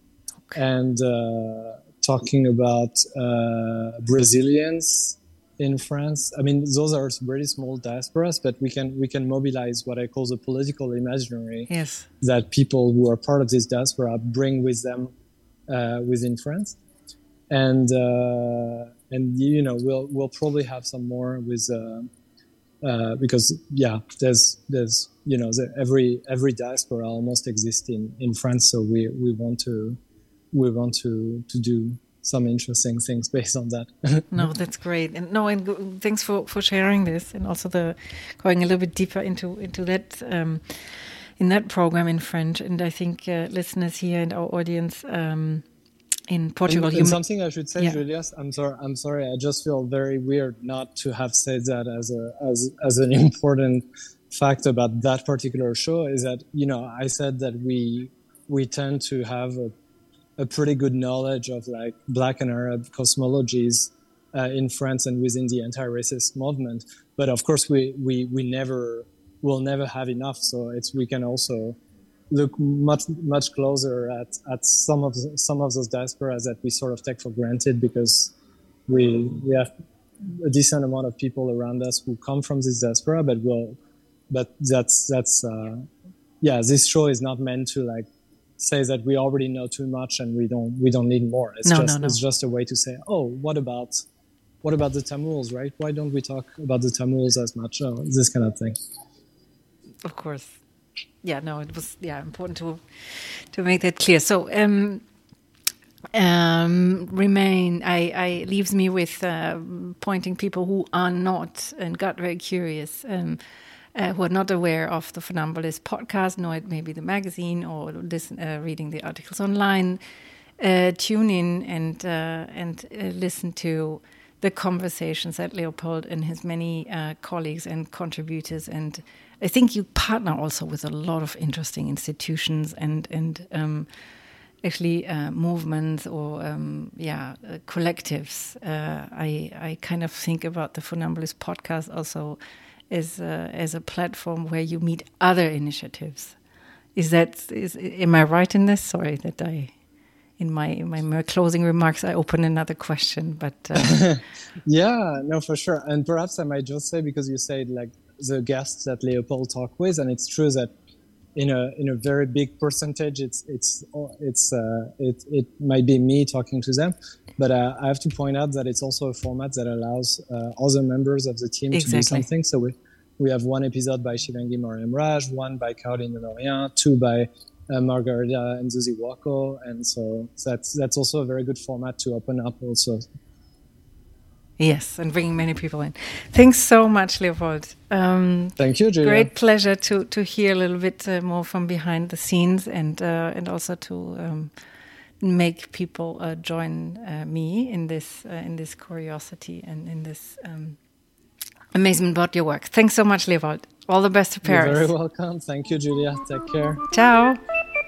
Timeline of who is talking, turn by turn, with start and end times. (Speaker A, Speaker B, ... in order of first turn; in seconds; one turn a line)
Speaker A: 0.6-11.7
Speaker B: 11.7-12.1
Speaker A: 12.2-15.1
Speaker A: 15.7-16.8
Speaker A: 17.5-22.1
Speaker A: 22.8-30.0
Speaker A: 30.5-34.5
Speaker B: 34.3-45.6
Speaker B: 46.3-47.2
Speaker A: 46.7-59.7
Speaker A: 60.4-71.8
Speaker A: 72.3-78.3
Speaker A: 78.9-79.7
Speaker A: 80.2-83.8
Speaker A: 84.3-85.9
Speaker A: 86.4-88.1
Speaker A: 88.6-94.0
Speaker B: 91.6-92.2
Speaker A: 94.6-98.8
Speaker B: 100.0-100.6
Speaker B: 101.2-105.0
Speaker B: 106.1-113.4
Speaker B: 113.9-120.0
Speaker B: 120.6-133.9
Speaker B: 134.6-146.4
Speaker B: 146.9-149.7
Speaker B: 150.4-154.0
Speaker A: 153.7-160.7
Speaker A: 161.3-183.1
Speaker B: 171.7-172.3
Speaker B: 184.6-194.5
Speaker A: 188.6-189.3
Speaker B: 195.2-200.8
Speaker B: 201.7-204.9
Speaker A: 204.4-206.8
Speaker B: 206.9-207.4